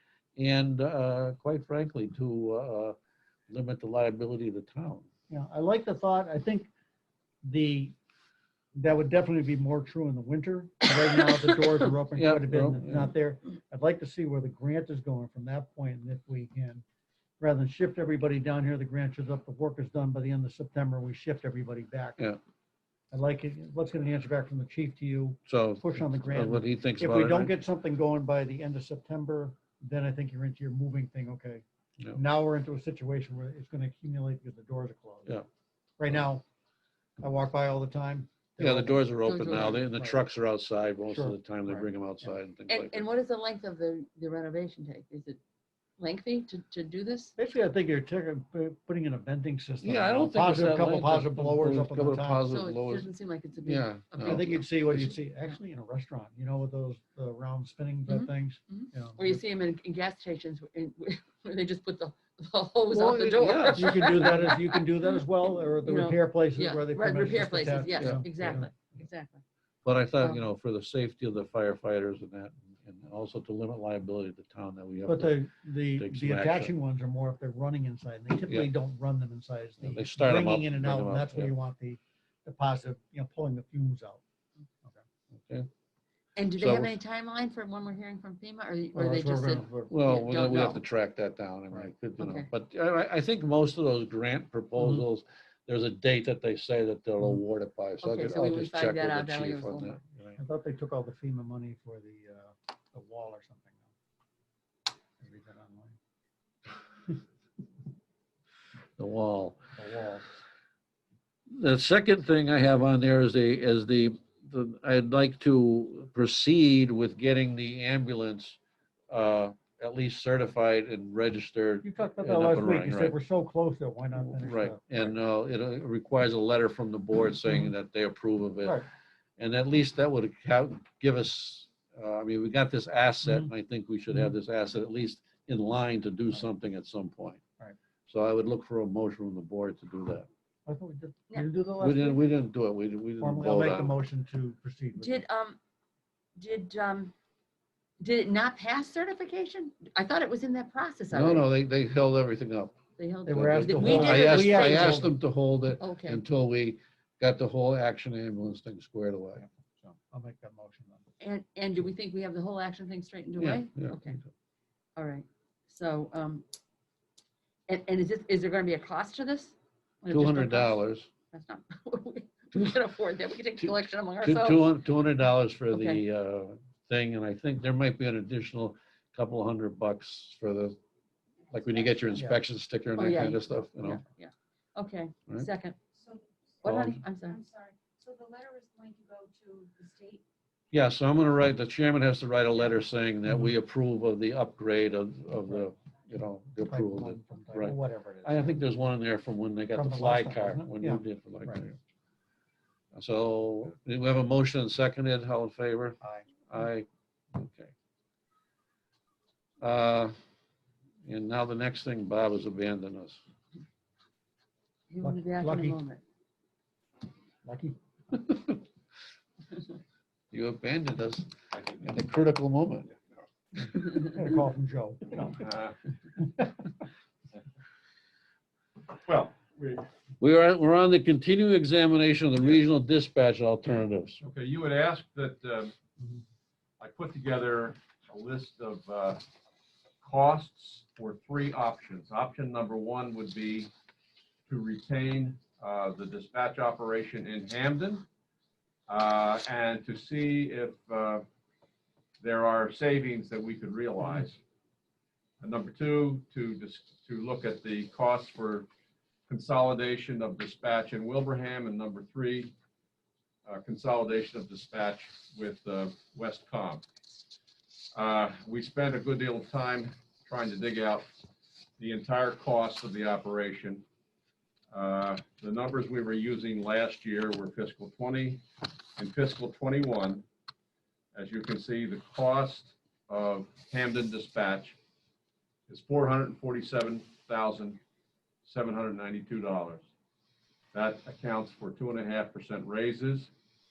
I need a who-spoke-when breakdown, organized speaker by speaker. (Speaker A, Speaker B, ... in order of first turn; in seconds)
Speaker A: 0.4-2.9, 3.5-5.0, 12.2-13.1, 25.5-27.5, 38.6-43.1, 49.8-53.1, 53.6-55.2, 62.9-64.5, 68.0-68.6, 69.8-75.4, 75.9-76.7, 79.8-81.5, 85.4-85.7, 86.6-87.0, 89.9-100.4, 109.0-109.6, 111.5-118.6, 119.1-123.1, 124.2-128.8, 129.4-137.4, 138.1-140.3, 141.8-143.9, 151.1-152.8, 153.3-159.4, 163.4-164.0, 170.1-171.1, 173.6-180.8, 181.5-184.0, 186.7-187.0, 190.7-201.8, 202.9-207.7, 209.6-210.2, 211.0-213.2, 220.3-222.9, 230.2-234.2
Speaker B: 5.3-6.7, 7.4-8.0, 8.8-16.8, 17.4-22.2, 23.1-35.4, 36.0-36.4, 37.2-40.2, 41.1-42.3, 47.4-52.5, 54.2-59.4, 63.7-68.7, 75.1-84.2, 88.9-89.9, 100.4-103.9, 105.2-105.9, 109.8-110.2, 121.8-125.1, 140.7-142.2, 143.2-145.2, 153.2-155.1, 159.4-161.0, 196.6-198.6, 199.7-201.7, 206.0-206.3, 215.0-215.8, 217.4-217.8, 223.9-225.4, 226.2-226.6
Speaker C: 39.2-39.8, 42.7-45.4, 46.0-47.3, 52.5-54.7, 58.1-64.8, 65.8-69.4, 86.4-90.8, 92.2-92.5, 98.0-99.9, 145.0-145.6, 146.4-147.1, 148.0-151.5, 153.0-155.0, 155.8-156.2, 161.2-164.2, 164.9-166.4, 167.7-170.8, 171.3-174.7, 175.7-176.0, 183.0-185.8, 186.6-187.4, 214.9-216.0
Speaker D: 187.3-190.2
Speaker E: 225.4-225.8, 229.1-229.8, 234.2-235.7, 236.8-239.2, 240.0-243.7, 244.5-248.0, 248.9-251.2, 252.2-254.4, 255.4-258.7, 259.3-262.5, 263.4-266.8, 267.9-271.1, 271.8-273.8, 274.7-278.4, 279.0-280.2, 281.1-284.8, 285.7-287.8, 288.4-289.8, 290.7-293.3